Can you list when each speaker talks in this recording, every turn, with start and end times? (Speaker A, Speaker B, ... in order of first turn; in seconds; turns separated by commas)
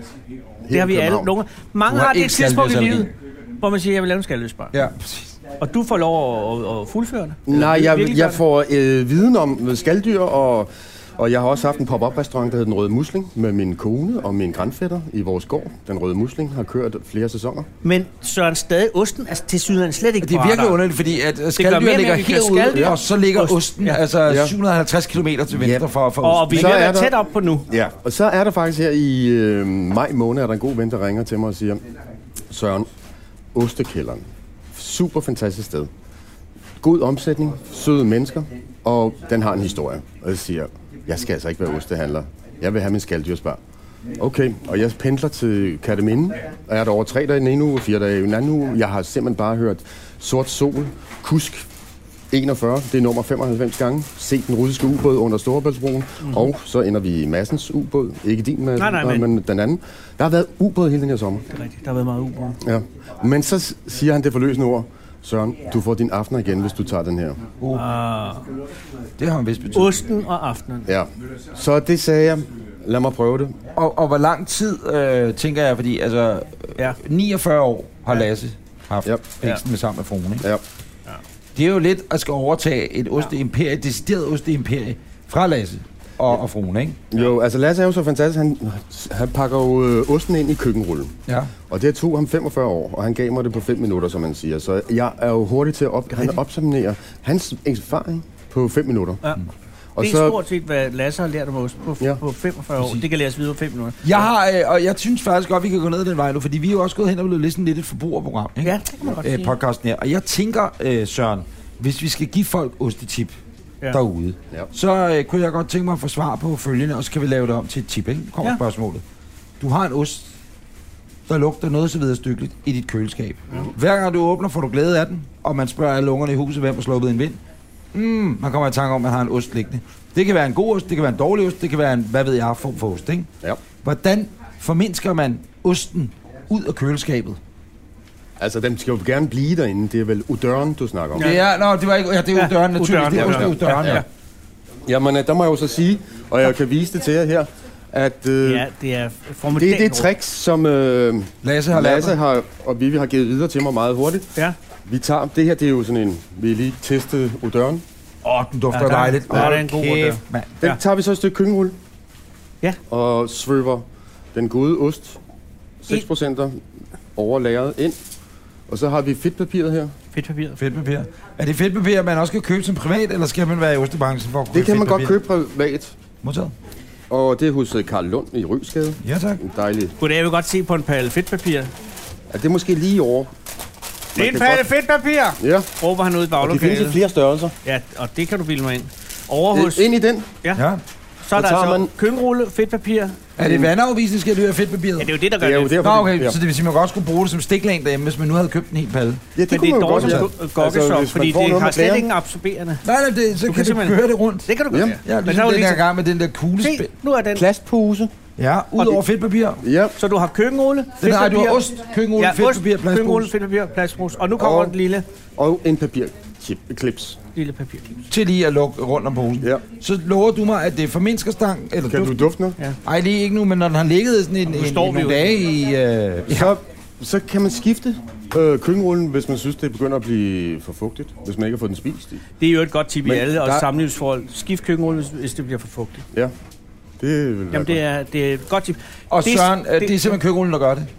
Speaker A: 0.6-1.3, Speaker B: 0.7-4.7, Speaker C: 1.9-3.1, Speaker C: 4.7-5.3, Speaker B: 5.6-8.4, Speaker A: 7.5-17.7, Speaker B: 17.8-20.8, Speaker C: 20.2-26.8, Speaker B: 21.6-24.0, Speaker A: 24.3-24.5, Speaker A: 25.5-25.8, Speaker B: 26.2-27.7, Speaker A: 26.5-27.1, Speaker A: 27.7-31.8, Speaker A: 32.5-32.9, Speaker A: 33.5-35.9, Speaker A: 36.8-43.6, Speaker A: 44.2-51.6, Speaker A: 52.3-61.4, Speaker B: 56.2-56.5, Speaker B: 58.8-59.3, Speaker B: 61.5-62.6, Speaker A: 62.6-67.4, Speaker B: 67.7-68.4, Speaker C: 69.2-70.0, Speaker B: 69.7-70.9, Speaker A: 70.9-73.5, Speaker C: 73.7-80.5, Speaker C: 81.5-87.0, Speaker A: 87.1-91.1, Speaker C: 91.3-91.5, Speaker A: 91.7-99.2, Speaker A: 100.0-100.4, Speaker B: 100.0-104.2, Speaker C: 104.0-113.3, Speaker B: 108.6-109.5, Speaker C: 113.9-119.0, Speaker C: 119.6-120.3, Speaker C: 121.3-127.4, Speaker C: 127.9-133.3, Speaker C: 133.8-137.4, Speaker A: 138.4-141.3, Speaker B: 141.2-141.4, Speaker C: 141.2-144.0, Speaker B: 142.3-144.1, Speaker A: 143.1-144.0, Speaker A: 144.8-148.7, Speaker B: 148.4-150.1, Speaker A: 149.5-154.3, Speaker C: 151.4-152.2, Speaker A: 154.9-157.8, Speaker C: 158.2-160.6, Speaker B: 158.7-160.8, Speaker A: 159.3-159.6, Speaker A: 160.6-161.8, Speaker A: 162.9-165.2, Speaker A: 165.8-166.6, Speaker A: 167.2-168.0, Speaker A: 168.7-169.9, Speaker B: 170.1-170.6, Speaker C: 170.6-175.2, Speaker A: 174.5-175.9, Speaker C: 176.2-176.5, Speaker A: 177.1-179.9, Speaker C: 179.0-179.4, Speaker B: 180.0-181.7, Speaker A: 182.3-183.3, Speaker A: 184.1-184.6, Speaker B: 184.2-187.0, Speaker A: 185.4-185.7, Speaker A: 186.4-187.5, Speaker B: 187.6-189.9, Speaker A: 189.5-190.3, Speaker C: 190.5-190.8, Speaker B: 191.2-193.2, Speaker A: 191.3-191.9, Speaker C: 193.4-195.1, Speaker A: 193.4-193.7, Speaker B: 195.0-195.8, Speaker A: 195.4-196.4, Speaker C: 195.8-199.2, Speaker A: 199.3-202.1, Speaker B: 199.5-202.8, Speaker C: 199.9-200.3, Speaker C: 202.8-204.5, Speaker B: 203.4-205.8, Speaker A: 204.7-205.0, Speaker C: 205.0-206.9, Speaker B: 206.6-207.4, Speaker A: 207.3-208.1, Speaker C: 208.4-209.6, Speaker A: 209.6-209.9, Speaker B: 210.0-215.0, Speaker C: 211.0-213.3, Speaker A: 214.4-214.7, Speaker A: 215.4-217.2, Speaker B: 217.3-218.0, Speaker C: 218.1-222.3, Speaker A: 221.9-222.6, Speaker C: 222.8-226.6, Speaker B: 224.5-225.3, Speaker A: 226.3-232.2, Speaker B: 232.4-236.0, Speaker A: 233.1-233.7, Speaker A: 237.0-237.8, Speaker B: 237.5-240.1, Speaker C: 239.1-240.9